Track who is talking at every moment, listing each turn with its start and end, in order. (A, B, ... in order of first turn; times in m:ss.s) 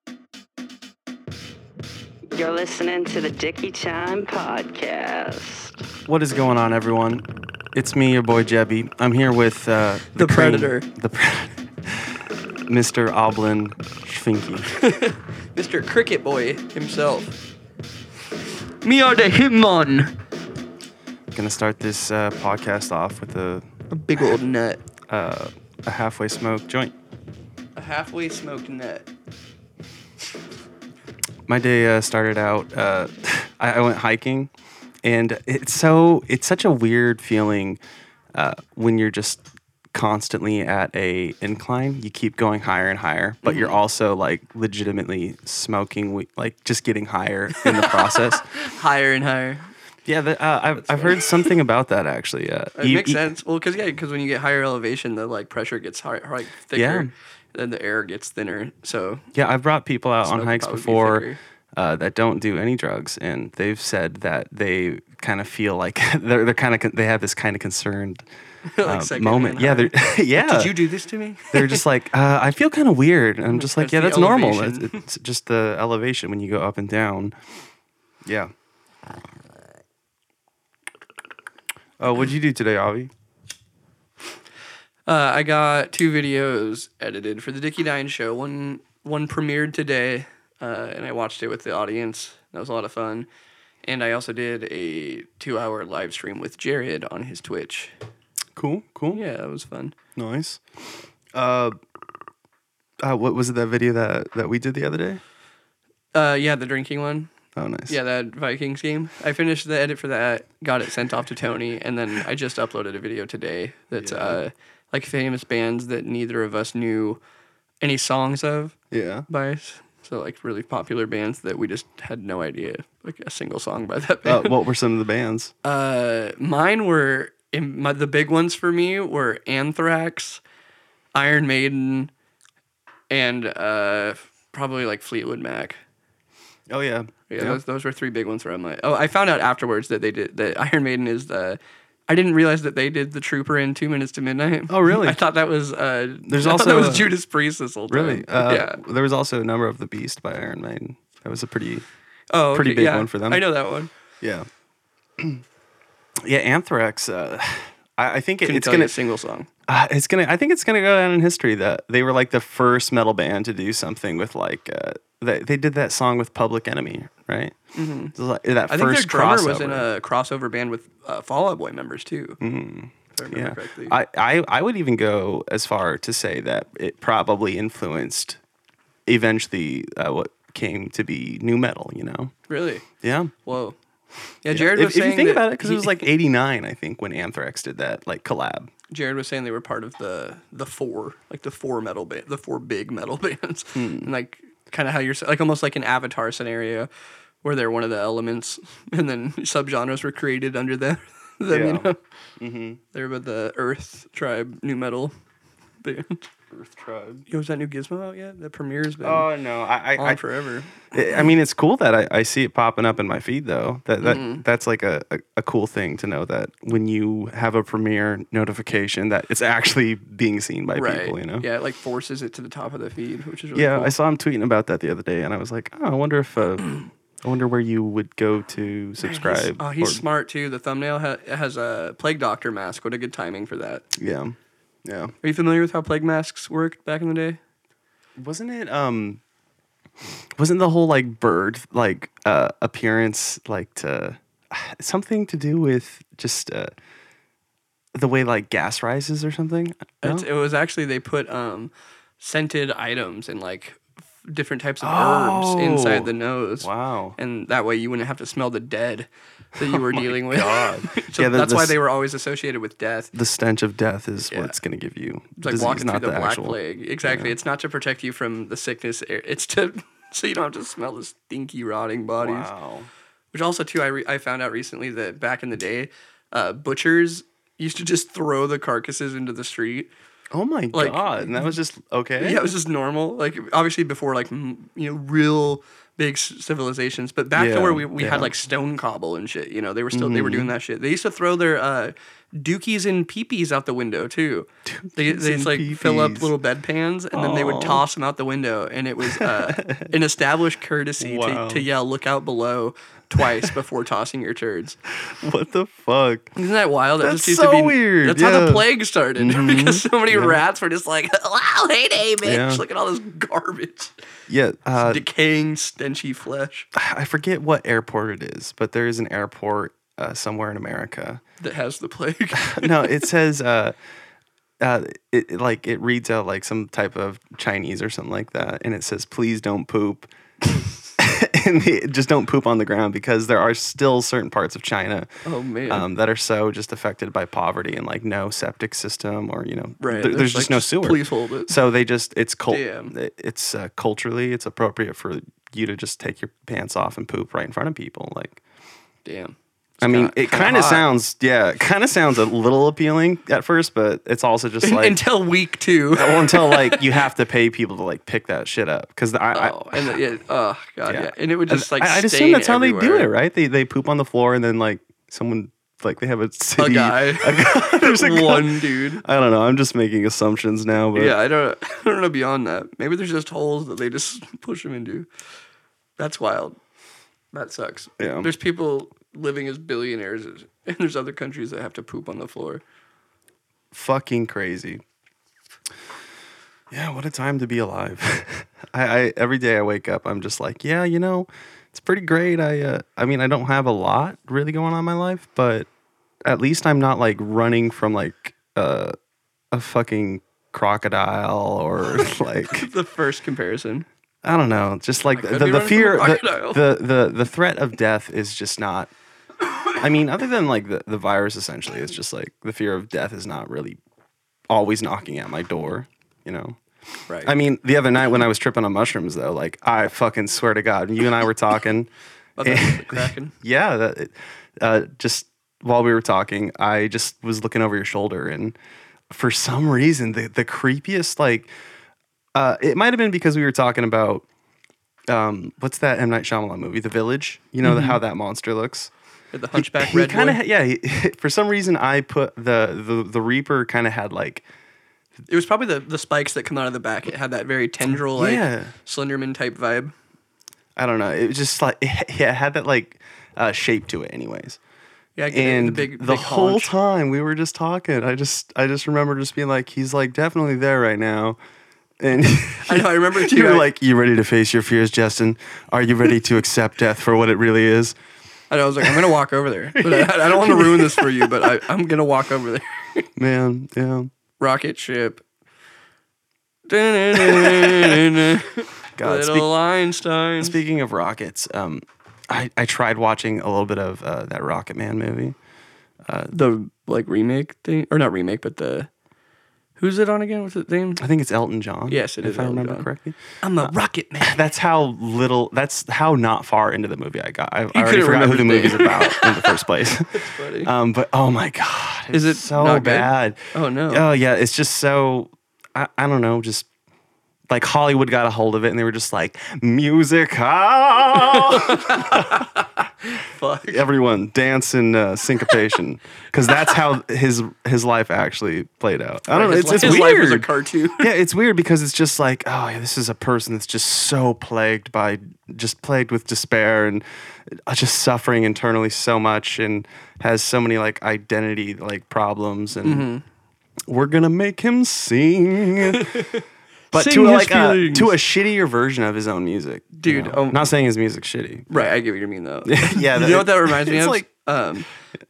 0:02.3-0:05.8 A
0:06.1-0:12.1 B
0:10.2-0:10.8 C
0:12.7-0:14.7 B
0:14.8-0:17.4 C
0:18.8-0:20.1 C
0:21.3-0:23.7 B
0:23.9-0:24.8 C
0:25.1-0:26.9 B
0:27.8-0:29.1 C
0:31.5-0:34.5 B
0:35.0-0:37.8 B
0:38.3-0:39.4 B
0:39.9-0:48.5 B
0:43.4-0:43.8 C
0:47.7-0:48.0 C
0:48.5-0:49.7 C
0:50.0-0:53.2 B
0:50.8-0:51.2 C
0:52.8-0:59.2 C
0:56.7-0:57.1 B
0:59.3-1:08.3 B
1:00.2-1:01.4 C
1:08.7-1:11.8 C
1:08.8-1:10.8 B
1:11.5-1:17.4 B
1:13.5-1:15.0 C
1:18.2-1:18.5 B
1:22.0-1:23.1 B
1:25.1-1:33.3 C
1:33.8-1:37.9 C
1:38.6-1:39.2 B
1:39.1-1:40.0 C
1:40.2-1:40.6 B
1:41.3-1:41.8 B
1:43.0-1:45.2 B
1:46.1-1:47.3 C
1:47.6-1:48.0 B
1:47.9-1:57.2 C
1:54.0-1:54.4 B
1:57.8-1:58.8 C
1:58.9-1:59.3 B
1:59.3-2:04.5 C
2:04.2-2:05.5 B
2:05.6-2:10.4 C
2:11.2-2:12.1 C
2:13.1-2:15.8 C
2:16.7-2:17.6 B
2:17.3-2:28.8 C
2:24.7-2:25.2 B
2:26.3-2:27.1 B
2:27.9-2:31.8 B
2:32.3-2:33.9 C
2:32.5-2:33.4 B
2:34.2-2:34.5 B
2:36.2-2:39.0 B
2:38.4-2:39.5 C
2:39.7-2:47.6 B
2:47.8-2:48.1 C
2:48.1-2:49.9 B
2:48.7-2:52.4 C
2:52.4-2:58.4 B
2:53.1-2:54.0 C
2:59.1-3:02.3 B
3:02.5-3:02.8 C
3:03.0-3:03.4 B
3:03.4-3:03.8 C
3:04.4-3:06.0 C
3:04.5-3:08.7 B
3:08.9-3:16.9 C
3:13.8-3:14.1 B
3:17.4-3:22.0 C
3:21.5-3:22.8 B
3:22.9-3:25.1 C
3:25.8-3:26.2 C
3:26.5-3:27.2 B
3:27.3-3:29.3 C
3:29.0-3:30.2 B
3:30.0-3:31.2 C
3:30.9-3:41.4 B
3:34.0-3:34.4 C
3:40.8-3:43.9 C
3:43.6-3:50.0 B
3:49.0-3:53.9 C
3:53.9-3:55.1 B
3:55.2-3:57.4 C
3:58.2-3:59.2 B
4:00.4-4:06.7 B
4:07.9-4:10.3 B
4:10.0-4:23.1 C
4:14.8-4:17.2 B
4:19.6-4:21.8 B
4:23.1-4:27.3 B
4:25.4-4:32.5 C
4:32.2-4:32.9 B
4:33.3-4:39.9 C
4:40.3-4:42.4 B
4:40.7-4:41.5 C
4:42.2-5:04.8 C
4:47.3-4:48.3 B
4:49.9-4:50.5 B
4:54.6-4:56.3 B
4:57.1-4:57.8 B
4:59.0-4:59.9 B
5:01.0-5:01.6 B
5:03.2-5:03.5 B
5:05.0-5:06.3 B
5:06.3-5:13.9 C
5:07.0-5:08.6 B
5:09.2-5:10.4 B
5:12.2-5:12.6 B
5:14.3-5:15.0 B
5:14.8-5:16.7 C
5:16.7-5:21.2 B
5:21.4-5:23.0 C
5:22.3-5:23.8 B
5:24.6-5:30.1 B
5:31.0-5:35.1 B
5:35.2-5:35.8 C
5:35.7-5:48.4 B
5:39.8-5:41.5 C
5:42.5-5:42.9 C
5:49.0-5:50.9 C
5:49.8-5:55.0 B
5:54.6-5:57.0 C
5:55.9-6:00.0 B
5:59.3-6:03.1 C
6:00.8-6:11.2 B
6:06.6-6:09.0 C
6:10.9-6:15.1 C
6:16.0-6:16.6 C
6:17.3-6:22.6 C
6:18.0-6:18.3 B
6:23.7-6:24.8 B
6:26.7-6:35.7 B
6:36.2-6:38.9 B
6:39.5-6:42.7 B
6:41.9-6:43.8 C
6:44.2-6:48.9 B
6:45.1-6:46.7 C
6:49.8-6:53.8 B
6:54.5-6:56.6 B
6:57.2-7:01.9 B
7:02.4-7:03.3 C
7:02.4-7:08.6 B
7:09.1-7:11.5 B
7:12.3-7:14.2 B
7:15.1-7:18.9 B
7:17.6-7:18.0 C
7:19.3-7:20.4 C
7:19.6-7:24.4 B
7:25.3-7:29.9 C
7:28.0-7:28.7 B
7:30.8-7:34.6 B
7:35.2-7:36.7 C
7:35.3-7:41.4 B
7:42.0-7:48.0 B
7:42.6-7:43.7 C
7:48.5-7:53.1 C
7:49.8-7:51.5 B
7:53.2-7:54.1 B
7:54.4-7:55.2 C
7:56.7-8:00.6 C
7:57.1-7:58.2 B
7:59.0-7:59.5 B
8:00.4-8:05.4 B
8:06.0-8:06.3 B
8:06.3-8:08.9 C
8:09.8-8:11.0 C
8:11.0-8:26.7 B
8:11.9-8:12.9 C
8:13.4-8:14.4 C
8:17.7-8:20.7 C
8:22.1-8:24.0 C
8:27.5-8:32.5 B
8:31.4-8:33.8 C
8:33.6-8:40.5 B
8:39.3-8:41.1 C
8:41.0-8:53.1 B
8:52.8-8:53.2 C
8:53.9-8:56.1 B
8:55.9-8:58.2 C
8:56.9-9:01.9 B
9:00.0-9:00.6 C
9:01.7-9:04.9 C
9:02.7-9:04.2 B